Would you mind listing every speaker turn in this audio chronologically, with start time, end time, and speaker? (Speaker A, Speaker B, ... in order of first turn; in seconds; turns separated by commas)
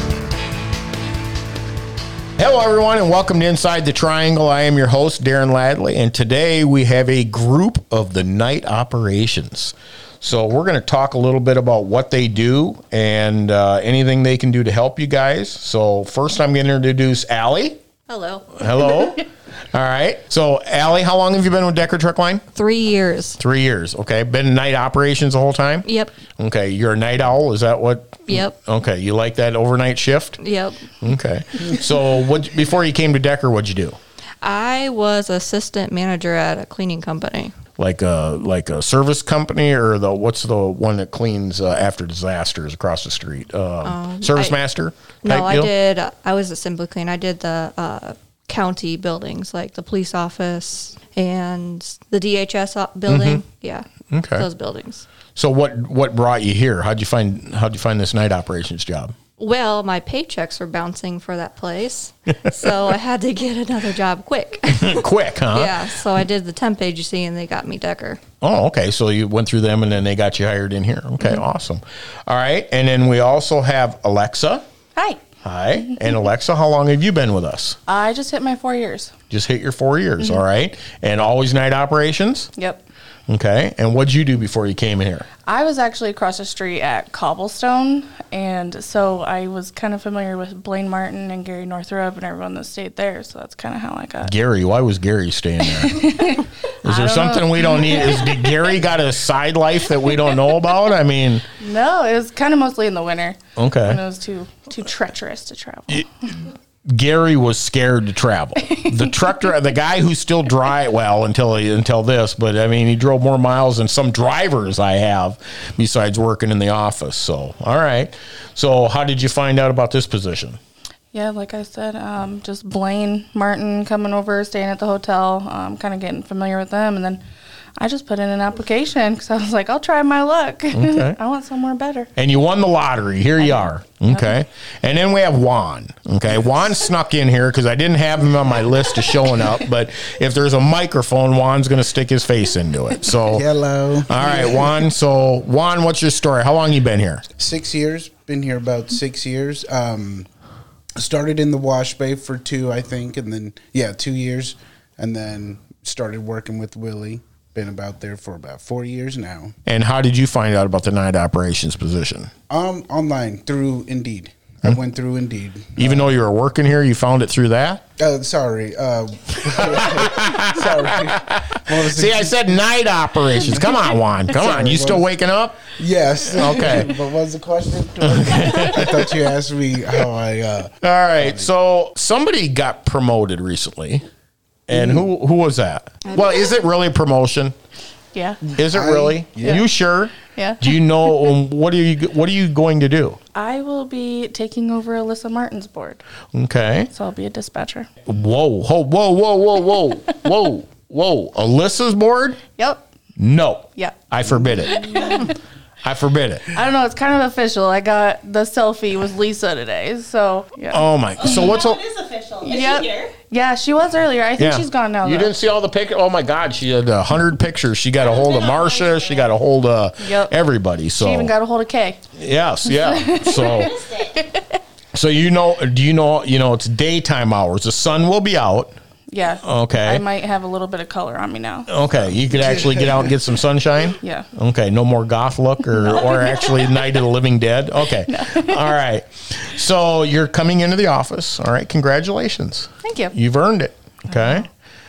Speaker A: 2.4-17.8, Speaker B: 18.1-18.6, Speaker A: 18.6-22.4, Speaker B: 22.5-23.4, Speaker A: 23.4-30.4, Speaker B: 25.8-26.1, Speaker B: 28.3-28.5, Speaker B: 30.4-30.9, Speaker A: 31.0-34.0, Speaker B: 34.4-37.5, Speaker A: 37.8-45.7, Speaker B: 43.8-44.6, Speaker B: 45.2-55.0, Speaker A: 53.1-53.4, Speaker A: 54.1-54.5, Speaker A: 55.3-59.1, Speaker B: 59.4-68.2, Speaker A: 64.7-65.9, Speaker A: 68.4-74.6, Speaker C: 75.0-75.2, Speaker A: 75.4-77.8, Speaker C: 77.9-79.1, Speaker A: 79.3-82.5, Speaker C: 82.6-82.8, Speaker A: 83.3-85.3, Speaker C: 85.5-94.3, Speaker A: 94.2-101.5, Speaker C: 95.6-98.8, Speaker C: 101.6-106.3, Speaker A: 103.6-104.0, Speaker A: 106.8-120.6, Speaker C: 121.1-127.2, Speaker C: 127.8-132.1, Speaker A: 130.7-131.2, Speaker A: 132.2-143.4, Speaker C: 133.4-134.3, Speaker D: 143.2-144.8, Speaker A: 144.1-147.2, Speaker D: 147.3-150.3, Speaker D: 151.0-159.6, Speaker A: 159.7-162.3, Speaker D: 162.5-166.1, Speaker A: 165.8-167.8, Speaker D: 168.0-172.7, Speaker A: 169.4-175.7, Speaker D: 173.3-173.8, Speaker D: 174.3-175.1, Speaker D: 175.7-181.5, Speaker A: 176.2-176.9, Speaker A: 178.0-179.1, Speaker A: 180.8-184.0, Speaker A: 184.7-187.5, Speaker D: 184.7-185.1, Speaker C: 188.1-188.5, Speaker D: 188.5-189.6, Speaker A: 188.6-193.2, Speaker C: 190.3-191.3, Speaker C: 193.3-196.0, Speaker A: 196.3-196.9, Speaker C: 196.9-197.9, Speaker A: 198.1-202.4, Speaker C: 202.6-202.8, Speaker A: 203.2-206.5, Speaker C: 204.5-205.4, Speaker E: 204.9-205.2, Speaker C: 206.5-211.5, Speaker A: 210.7-211.8, Speaker E: 211.2-213.1, Speaker C: 212.4-215.3, Speaker A: 214.4-221.3, Speaker E: 217.9-219.3, Speaker C: 220.0-220.3, Speaker C: 220.9-222.0, Speaker A: 222.2-223.7, Speaker C: 222.6-224.6, Speaker E: 223.3-224.2, Speaker A: 224.9-228.7, Speaker C: 229.1-231.7, Speaker A: 229.4-230.0, Speaker A: 231.7-244.5, Speaker D: 232.3-233.1, Speaker C: 234.0-234.3, Speaker C: 235.7-236.8, Speaker C: 238.1-238.7, Speaker C: 242.8-243.1, Speaker C: 244.1-244.4